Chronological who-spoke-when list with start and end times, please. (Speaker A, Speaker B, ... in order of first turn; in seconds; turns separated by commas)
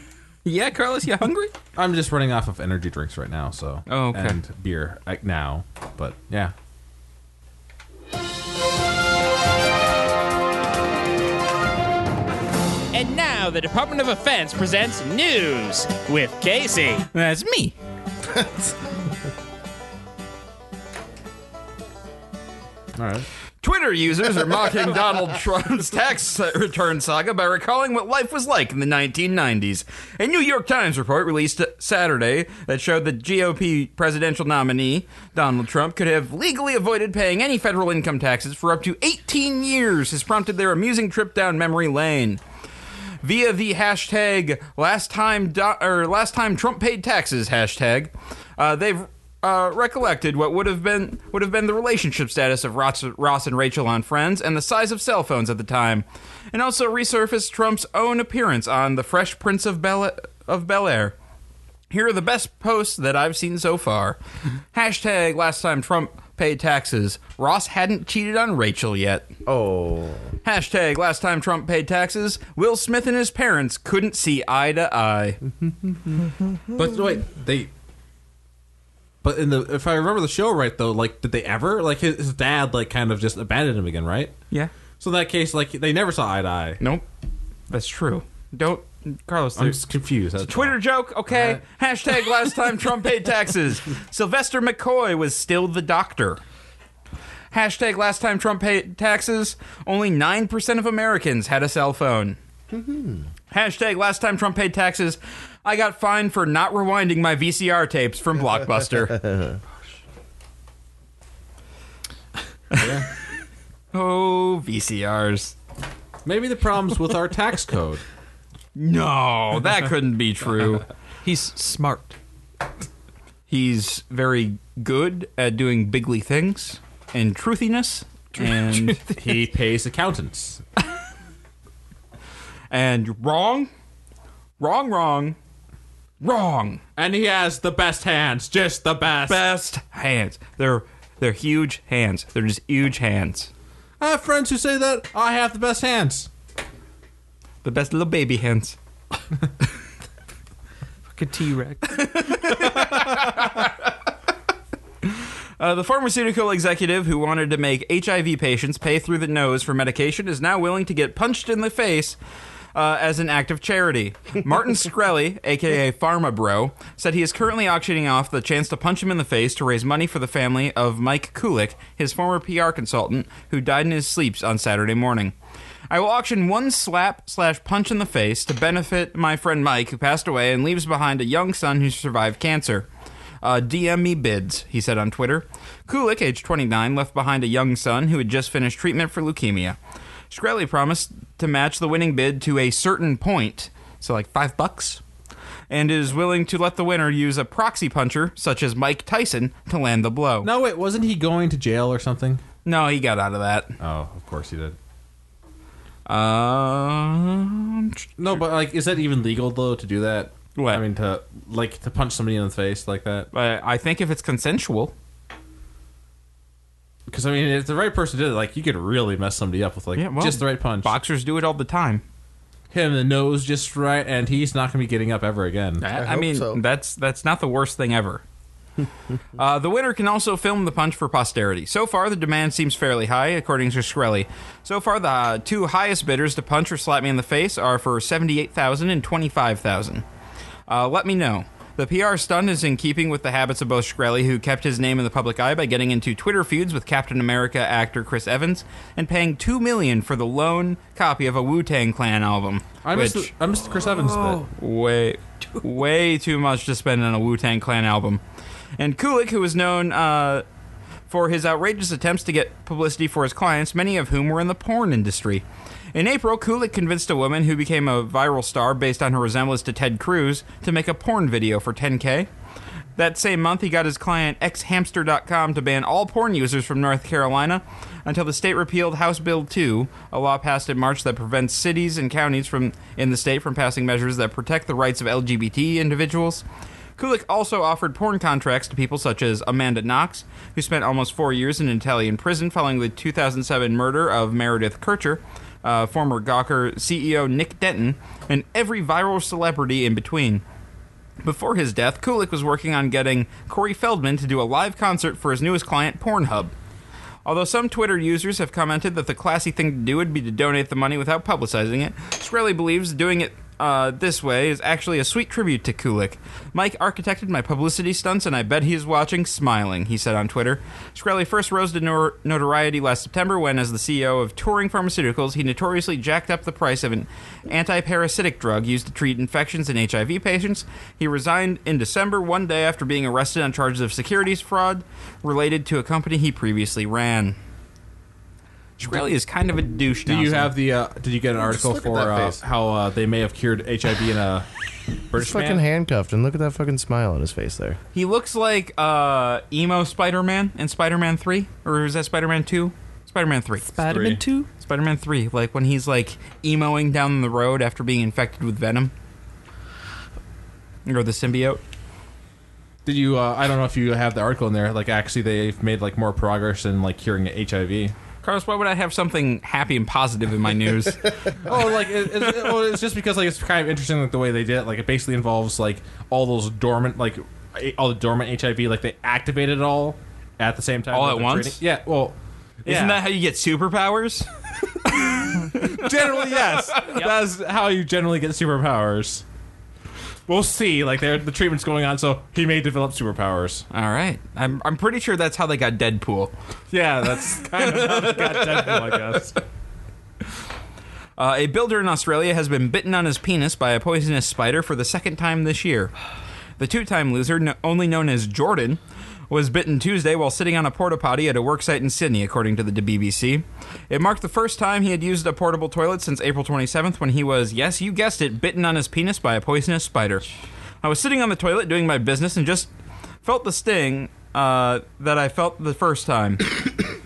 Speaker A: 0.5-1.5, Speaker B: 1.8-6.5, Speaker A: 3.9-4.4, Speaker C: 12.9-17.0, Speaker A: 13.2-17.7, Speaker D: 18.3-18.8, Speaker B: 22.9-23.3, Speaker A: 23.6-42.4, Speaker A: 43.2-61.1, Speaker A: 61.9-64.2, Speaker A: 64.7-69.3, Speaker D: 69.5-70.3, Speaker A: 70.4-75.4, Speaker D: 75.6-76.2, Speaker B: 76.7-77.7, Speaker B: 79.2-84.3, Speaker B: 85.0-86.8, Speaker A: 86.8-87.0, Speaker A: 87.7-89.8, Speaker B: 89.6-90.8, Speaker A: 90.4-96.4, Speaker B: 91.3-91.6, Speaker A: 97.5-102.4, Speaker D: 102.7-103.3, Speaker A: 103.5-109.2, Speaker D: 109.1-109.6, Speaker B: 112.8-113.1, Speaker A: 113.9-115.5, Speaker B: 116.2-118.0, Speaker A: 118.8-120.9, Speaker E: 121.2-122.2, Speaker A: 123.5-129.1, Speaker B: 129.1-130.6, Speaker A: 132.7-133.7, Speaker A: 134.6-135.4, Speaker A: 136.2-136.8, Speaker B: 137.0-139.4, Speaker A: 139.3-143.5, Speaker B: 144.0-146.3, Speaker A: 147.6-148.8, Speaker E: 151.1-152.3, Speaker A: 151.9-153.9, Speaker A: 155.1-162.2, Speaker A: 162.7-175.3, Speaker A: 175.9-182.9, Speaker A: 183.4-189.8, Speaker A: 190.3-195.0, Speaker A: 195.7-200.5, Speaker B: 200.4-202.4, Speaker A: 202.7-203.8, Speaker B: 203.8-204.8, Speaker A: 206.1-208.4, Speaker B: 208.2-213.3, Speaker A: 210.6-210.8, Speaker A: 213.3-214.9, Speaker B: 217.1-220.9, Speaker A: 219.9-222.0, Speaker B: 222.7-225.8, Speaker A: 225.8-228.2, Speaker D: 225.9-226.6, Speaker A: 229.4-240.1, Speaker A: 240.7-253.3, Speaker B: 252.8-254.5, Speaker E: 253.7-254.4, Speaker A: 254.5-258.2, Speaker A: 258.8-260.4, Speaker A: 261.1-272.3, Speaker A: 273.0-286.4, Speaker A: 287.0-300.4, Speaker A: 301.2-306.5, Speaker A: 307.2-337.4, Speaker A: 338.8-340.5, Speaker B: 340.1-344.5, Speaker D: 341.4-342.4, Speaker B: 345.0-345.6, Speaker D: 345.2-347.8, Speaker A: 347.9-353.7, Speaker E: 353.7-354.5, Speaker B: 353.8-354.2, Speaker A: 354.6-358.9, Speaker A: 360.9-361.6, Speaker B: 362.9-367.9, Speaker A: 368.2-371.5, Speaker B: 371.4-383.0, Speaker A: 380.9-381.6, Speaker A: 382.7-384.3, Speaker A: 384.9-387.0, Speaker B: 385.1-389.2, Speaker B: 390.3-393.7, Speaker A: 393.7-396.3, Speaker B: 396.7-399.4, Speaker A: 397.4-399.2, Speaker A: 401.2-405.9, Speaker A: 406.6-420.3, Speaker A: 420.8-422.7, Speaker A: 423.2-426.8